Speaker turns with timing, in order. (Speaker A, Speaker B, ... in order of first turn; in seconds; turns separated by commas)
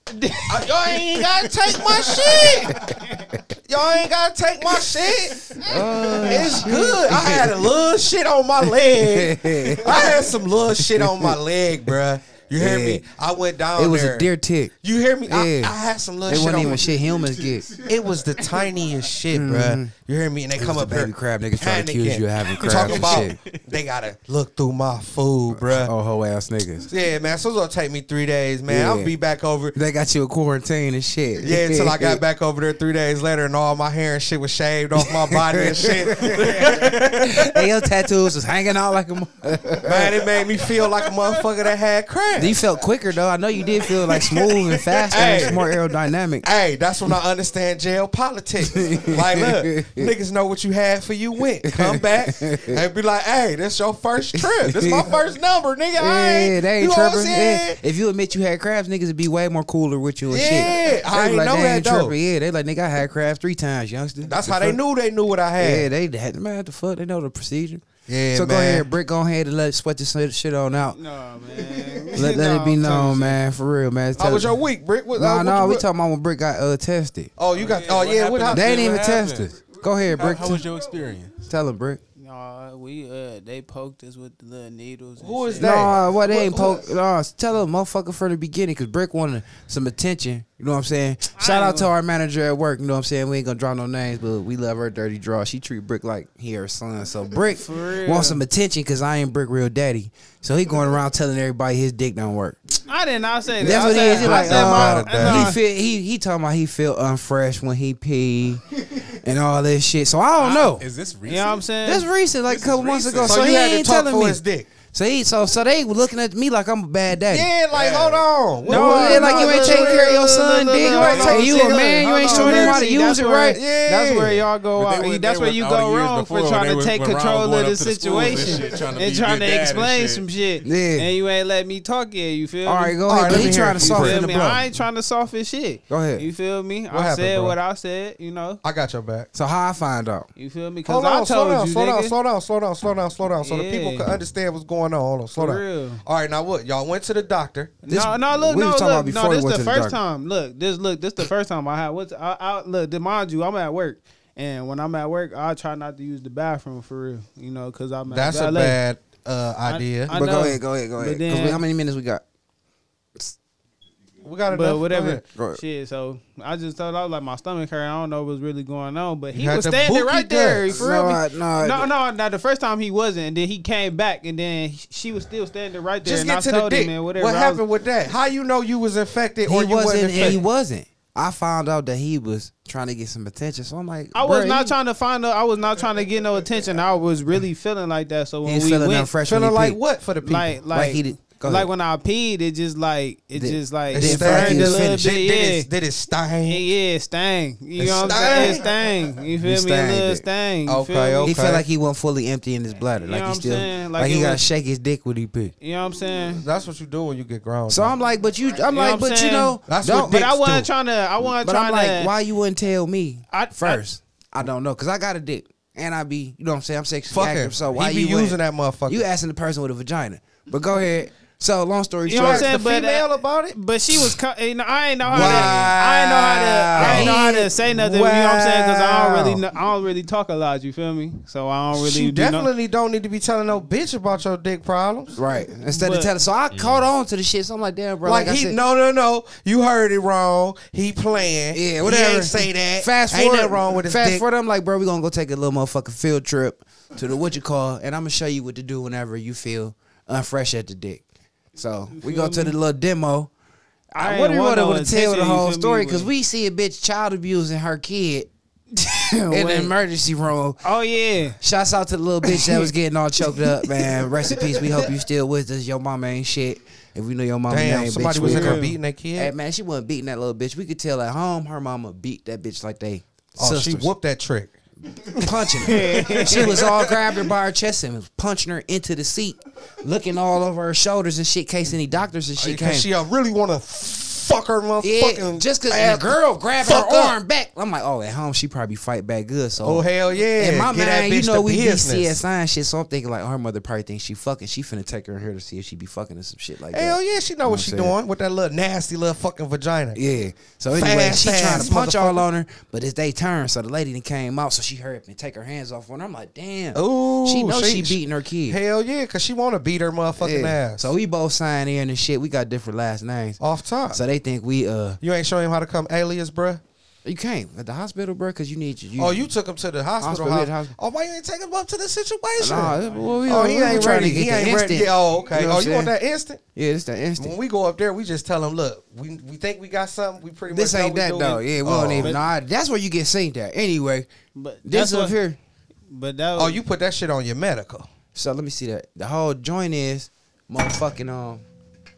Speaker A: 0.4-2.9, Speaker B: 2.0-3.4, Speaker A: 3.6-5.6, Speaker B: 5.6-7.7, Speaker A: 6.2-14.3, Speaker B: 8.8-11.4, Speaker B: 12.6-13.0, Speaker B: 13.7-14.7, Speaker A: 14.8-16.9, Speaker B: 15.3-15.7, Speaker B: 16.2-17.7, Speaker A: 17.8-25.9, Speaker B: 19.3-19.9, Speaker B: 20.6-23.4, Speaker C: 22.5-23.6, Speaker B: 25.5-26.9, Speaker A: 26.9-29.8, Speaker B: 28.7-29.1, Speaker B: 29.7-32.2, Speaker A: 31.4-37.5, Speaker B: 35.0-40.2, Speaker A: 39.8-42.6, Speaker B: 42.4-46.5, Speaker C: 44.0-45.5, Speaker A: 45.1-45.6, Speaker A: 46.4-57.8, Speaker B: 48.6-50.1, Speaker B: 51.6-52.8, Speaker B: 54.3-55.1, Speaker B: 56.0-64.8, Speaker A: 60.3-62.1, Speaker A: 64.2-65.9, Speaker B: 65.6-71.0, Speaker A: 68.1-68.9, Speaker D: 70.9-73.4, Speaker B: 72.1-74.6, Speaker A: 74.2-75.8, Speaker B: 75.2-77.3, Speaker A: 77.4-79.0, Speaker C: 77.5-79.6, Speaker B: 78.5-80.7, Speaker C: 80.1-81.3, Speaker B: 81.4-82.0, Speaker D: 82.2-85.9, Speaker A: 85.2-86.9, Speaker B: 85.6-102.7, Speaker D: 91.4-91.9, Speaker D: 97.5-98.4, Speaker D: 102.9-105.6, Speaker B: 103.6-110.8, Speaker A: 103.6-105.5, Speaker C: 110.4-111.7, Speaker D: 111.2-112.1, Speaker B: 111.8-114.4, Speaker C: 112.5-113.5, Speaker A: 113.2-114.7, Speaker B: 114.9-117.5, Speaker A: 117.3-120.2, Speaker C: 117.7-118.2, Speaker D: 118.7-138.6, Speaker B: 118.7-123.6, Speaker A: 120.8-122.9, Speaker C: 121.1-121.5, Speaker A: 123.5-124.4, Speaker C: 124.7-130.2, Speaker B: 130.6-131.1, Speaker B: 132.6-134.7, Speaker A: 133.1-134.3, Speaker B: 135.9-136.2, Speaker A: 136.9-137.6, Speaker A: 138.6-139.3, Speaker B: 139.3-140.3, Speaker D: 140.3-142.1, Speaker A: 140.8-147.8, Speaker D: 143.4-144.1, Speaker D: 145.3-146.0, Speaker D: 147.8-158.8, Speaker B: 147.9-150.0, Speaker A: 158.1-160.1, Speaker D: 159.7-161.6, Speaker B: 160.1-162.2, Speaker A: 164.2-165.2, Speaker D: 164.5-177.6, Speaker B: 165.3-165.6, Speaker A: 169.3-170.8, Speaker B: 170.7-171.9, Speaker A: 176.0-180.4, Speaker B: 179.4-184.8, Speaker D: 184.1-189.1, Speaker B: 188.4-189.8, Speaker A: 189.2-190.5, Speaker D: 190.2-195.7, Speaker B: 190.7-191.7, Speaker B: 193.3-195.0, Speaker A: 193.9-196.6, Speaker D: 196.5-201.4, Speaker A: 197.8-198.6, Speaker B: 199.4-200.2, Speaker A: 200.7-201.7, Speaker B: 201.2-205.5, Speaker D: 203.0-204.4, Speaker D: 205.6-206.4, Speaker A: 206.3-207.9, Speaker B: 207.7-210.2, Speaker D: 208.7-212.1, Speaker A: 209.7-210.7, Speaker B: 211.2-222.5, Speaker D: 213.3-213.8, Speaker A: 217.1-219.0, Speaker D: 222.1-232.5, Speaker A: 222.1-223.6, Speaker A: 225.1-229.4, Speaker B: 225.1-225.7, Speaker B: 226.7-227.2, Speaker A: 231.7-235.2, Speaker B: 235.2-238.6, Speaker D: 235.7-236.1, Speaker C: 236.5-236.9, Speaker A: 238.0-244.2, Speaker B: 241.5-251.0, Speaker B: 251.5-253.3, Speaker D: 251.9-252.5, Speaker D: 253.9-256.1, Speaker B: 253.9-260.6, Speaker D: 259.3-259.7, Speaker D: 260.6-261.4, Speaker B: 261.4-273.9, Speaker D: 262.2-262.7, Speaker A: 267.5-269.3, Speaker D: 268.2-268.8, Speaker A: 273.4-274.5, Speaker B: 275.0-282.9, Speaker D: 275.2-276.6, Speaker C: 275.8-277.1, Speaker A: 282.4-287.1, Speaker B: 284.8-297.9, Speaker A: 289.6-292.2, Speaker A: 296.7-300.0, Speaker B: 299.9-308.6, Speaker A: 300.7-302.2, Speaker A: 306.7-310.9, Speaker B: 310.2-313.4, Speaker A: 313.4-314.0, Speaker B: 313.9-315.0, Speaker A: 315.0-316.6, Speaker B: 317.0-319.3, Speaker A: 319.0-326.4, Speaker B: 320.0-320.7, Speaker B: 322.4-325.9, Speaker B: 326.5-327.4, Speaker A: 327.2-332.2, Speaker B: 330.5-334.1, Speaker D: 334.3-335.1, Speaker B: 334.6-335.4, Speaker D: 335.9-336.6, Speaker A: 336.4-337.9, Speaker B: 338.1-341.4